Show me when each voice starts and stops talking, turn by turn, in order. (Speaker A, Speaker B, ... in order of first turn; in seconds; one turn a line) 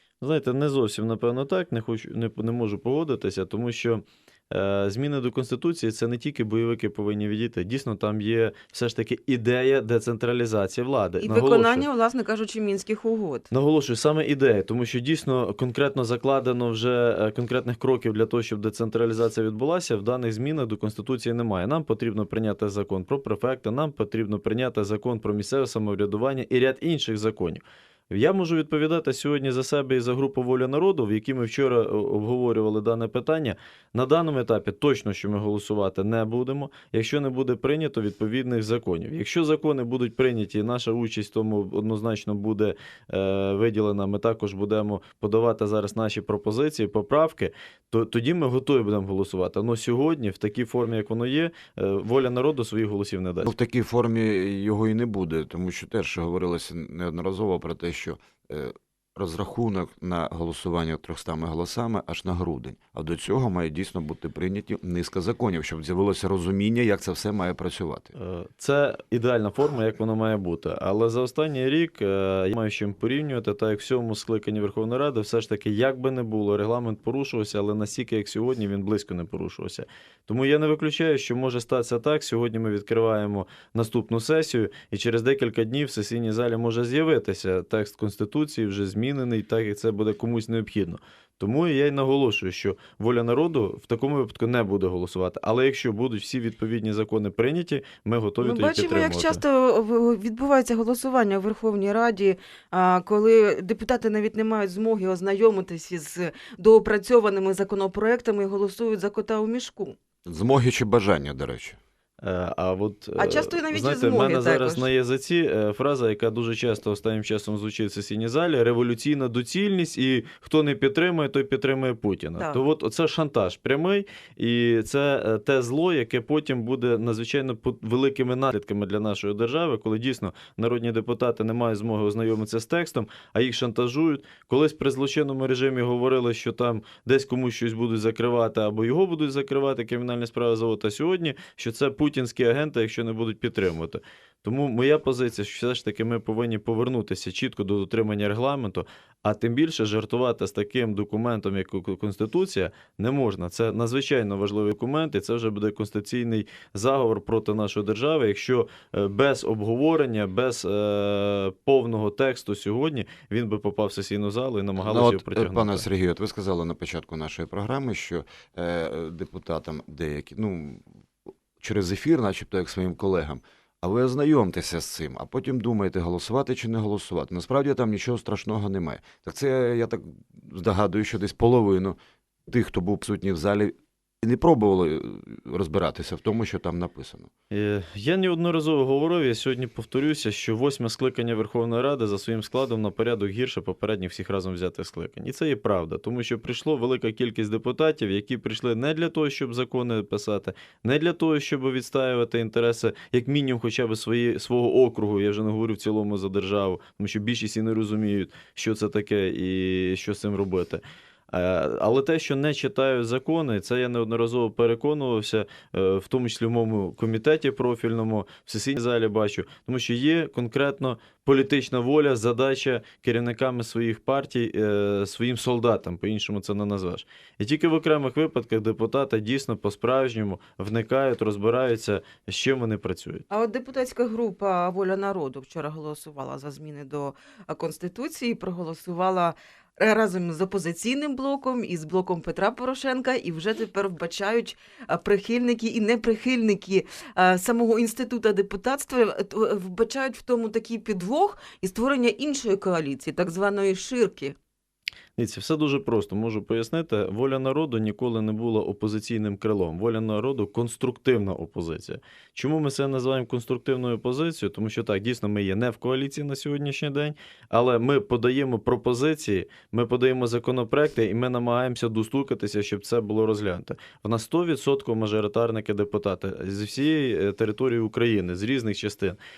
Speaker A: 0.2-11.9
Speaker B: 11.2-13.5
Speaker A: 13.5-53.5
Speaker C: 53.4-68.1
Speaker A: 68.2-99.4
Speaker B: 98.4-110.0
Speaker C: 110.3-111.8
Speaker A: 112.2-165.9
Speaker B: 113.2-114.9
Speaker B: 122.4-122.6
Speaker C: 164.8-170.8
Speaker C: 171.6-182.0
Speaker C: 182.5-187.3
Speaker A: 187.5-233.2
Speaker B: 233.3-254.3
Speaker A: 255.2-279.2